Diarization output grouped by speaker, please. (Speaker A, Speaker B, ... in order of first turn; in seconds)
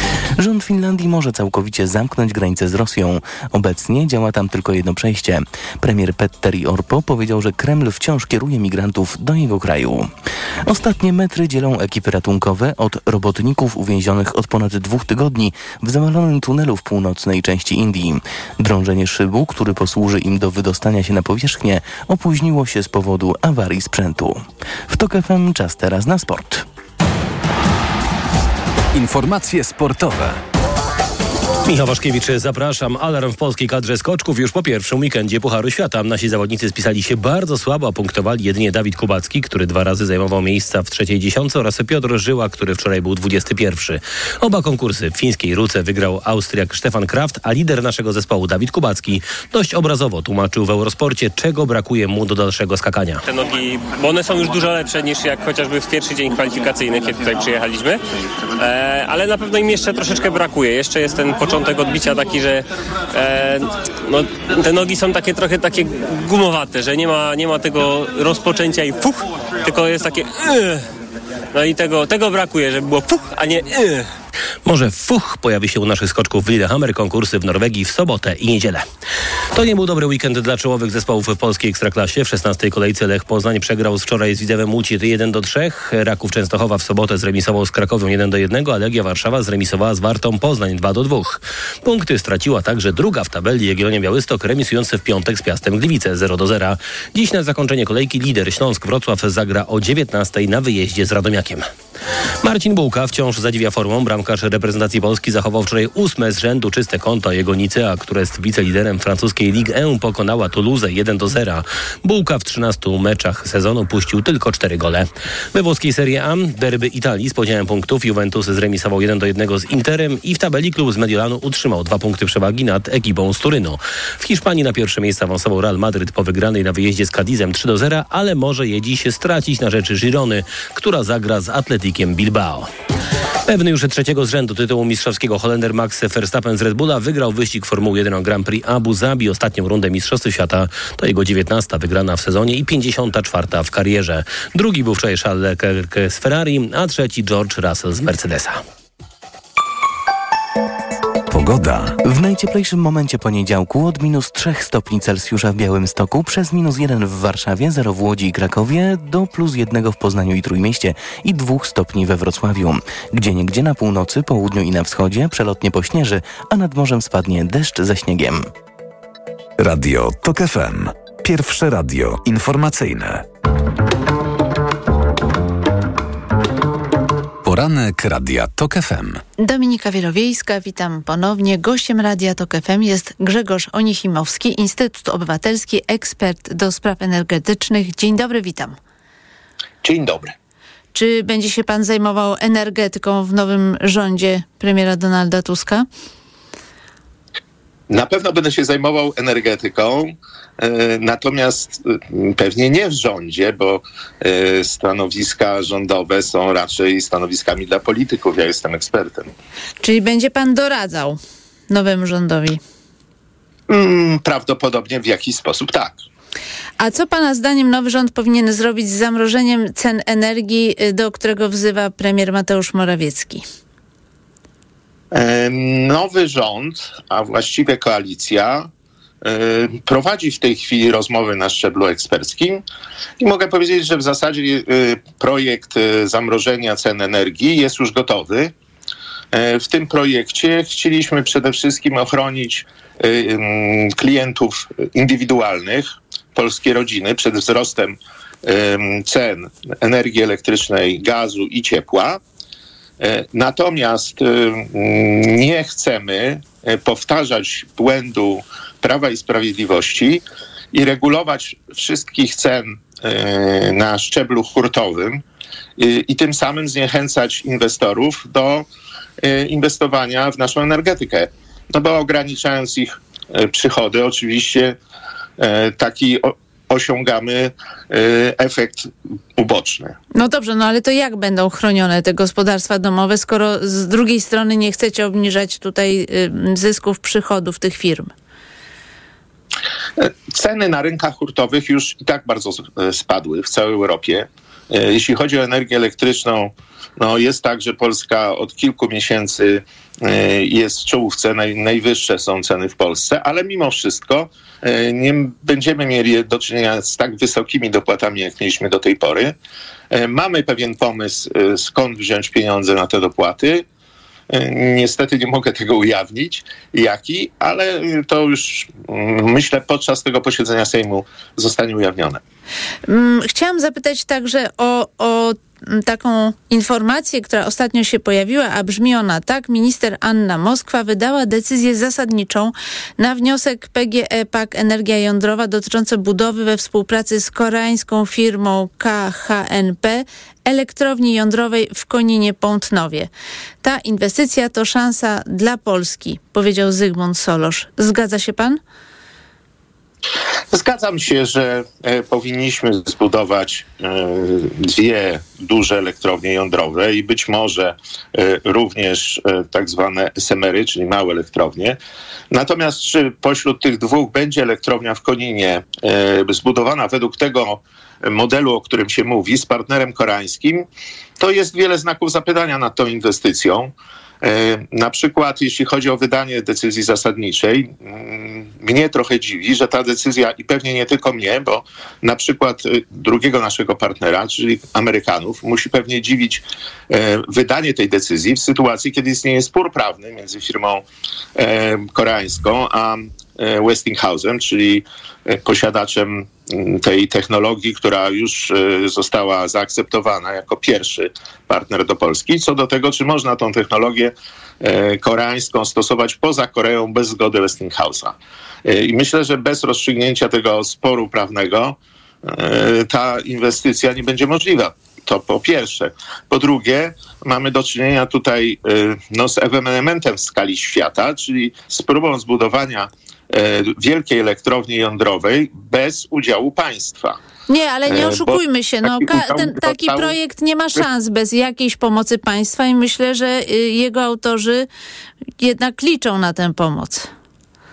Speaker A: 0.4-10.1, 10.7-26.6, 152.0-168.5
Speaker B: 28.9-30.4, 151.3-152.0, 169.6-173.2, 177.4-179.2
Speaker C: 31.7-53.2, 74.7-78.8, 79.5-101.7, 102.4-132.7, 133.5-148.6
Speaker D: 53.3-58.0, 58.6-70.8, 71.5-74.1
Speaker E: 179.4-188.8, 190.9-195.9, 209.8-211.2, 211.7-212.6, 216.8-223.4, 280.1-288.1, 322.9-343.1, 343.6-348.6, 427.5-434.7, 435.4-437.1
Speaker F: 189.8-190.3, 197.9-209.3, 213.7-216.0, 225.1-228.7, 229.2-232.6, 233.2-238.5, 239.3-252.2, 253.0-265.2, 265.8-268.6, 269.2-274.8, 275.4-279.9, 290.0-309.4, 309.9-313.6, 314.3-322.2, 350.5-361.8, 362.3-370.6, 371.2-373.7, 374.2-390.9, 391.4-408.1, 408.7-427.2, 427.9-430.2